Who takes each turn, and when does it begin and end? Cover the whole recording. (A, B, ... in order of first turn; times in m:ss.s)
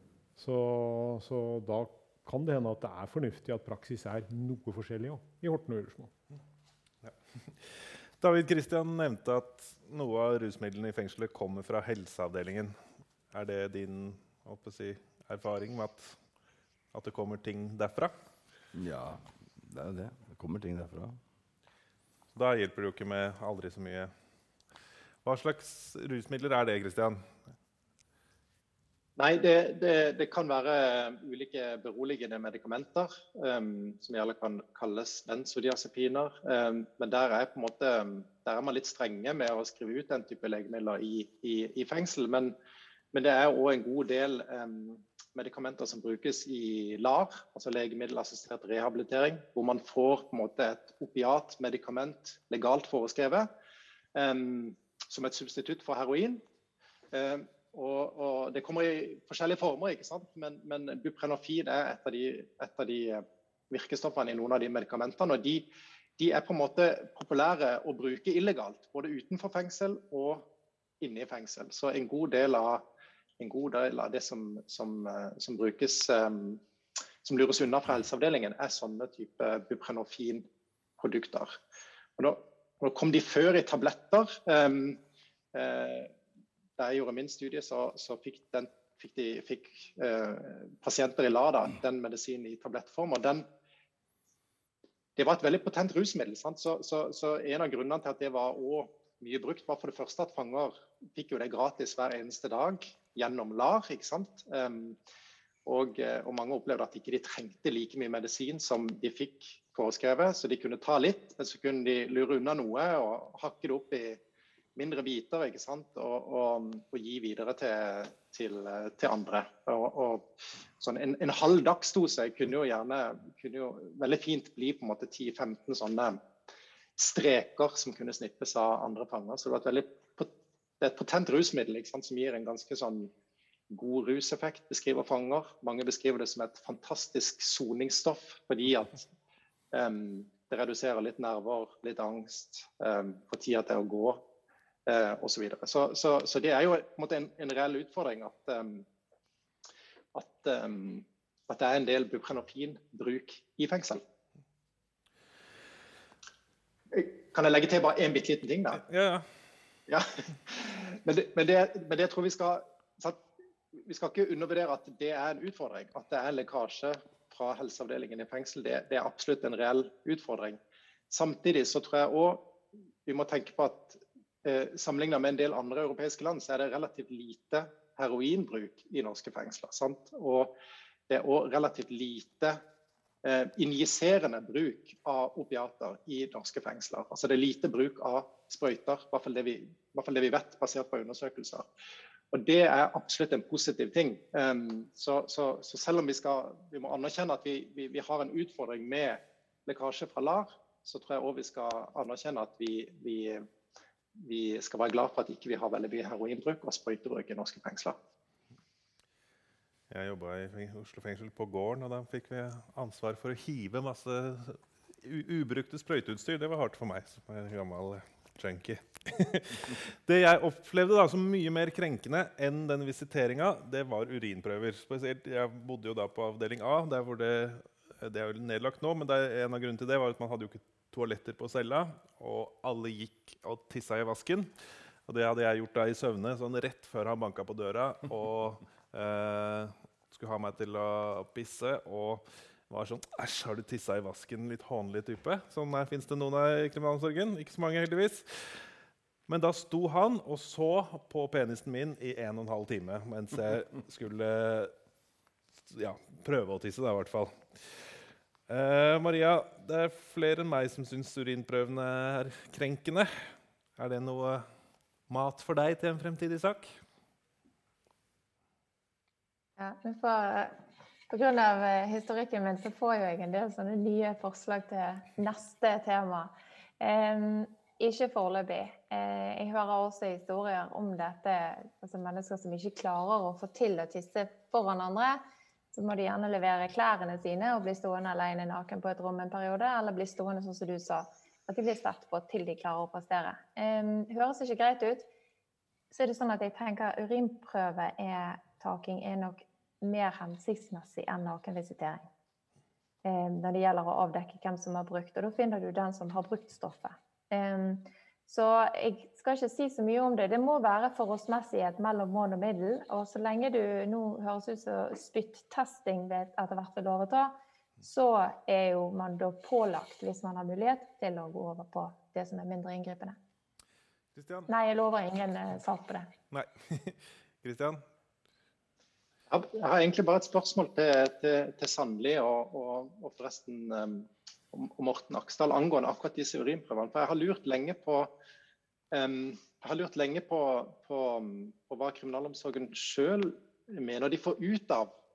0:00.4-0:06.1 A
0:07.0-0:12.8 B
0:13.3-0:16.2 B
0:16.9-0:18.1 B
0:18.8-0:21.2 C
0:22.4-0:24.1 B
0:25.2-0:27.3 B
0:29.2-0:42.5 D
0:43.1-0:53.5 D
0:54.2-0:56.4 D
0:57.1-1:05.7 D
1:06.2-1:10.5 D
1:11.0-1:12.8 D
1:13.4-1:16.6 D
1:17.2-1:20.4 D
1:21.0-1:21.6 D
1:22.2-1:25.0 D
1:25.5-1:26.1 D
1:26.8-1:33.4 D
1:35.2-1:45.0 D
1:45.7-1:54.2 D
1:54.8-2:00.3 D
2:00.8-2:06.2 D
2:07.0-2:13.1 D
2:13.7-2:19.1 D
2:19.7-2:24.2 D
2:24.9-2:28.9 D
2:30.1-2:34.0 D
2:36.9-2:38.8 D
2:38.8-2:39.3 B
2:39.9-2:43.2 D
2:43.8-2:50.6 D
2:51.1-2:52.4 D
2:53.1-3:00.5 D
3:01.1-3:02.6 D
3:03.2-3:11.7 D
3:12.3-3:23.5 D
3:24.2-3:28.0 D
3:29.9-3:54.5 B
3:55.1-4:08.7 B
4:09.3-4:14.7 B
4:15.7-4:17.8 B
4:18.5-4:23.1 B
4:23.8-4:24.5 B
4:25.1-4:26.8 B
4:29.6-4:30.6 E
4:31.1-4:45.2 E
4:45.7-4:55.1 E
4:55.9-5:02.1 E
5:03.0-5:23.2 E
5:24.2-5:24.5 B
5:24.5-5:26.1 E
5:26.3-5:27.8 B
5:29.3-5:38.1 D
5:38.9-5:44.9 D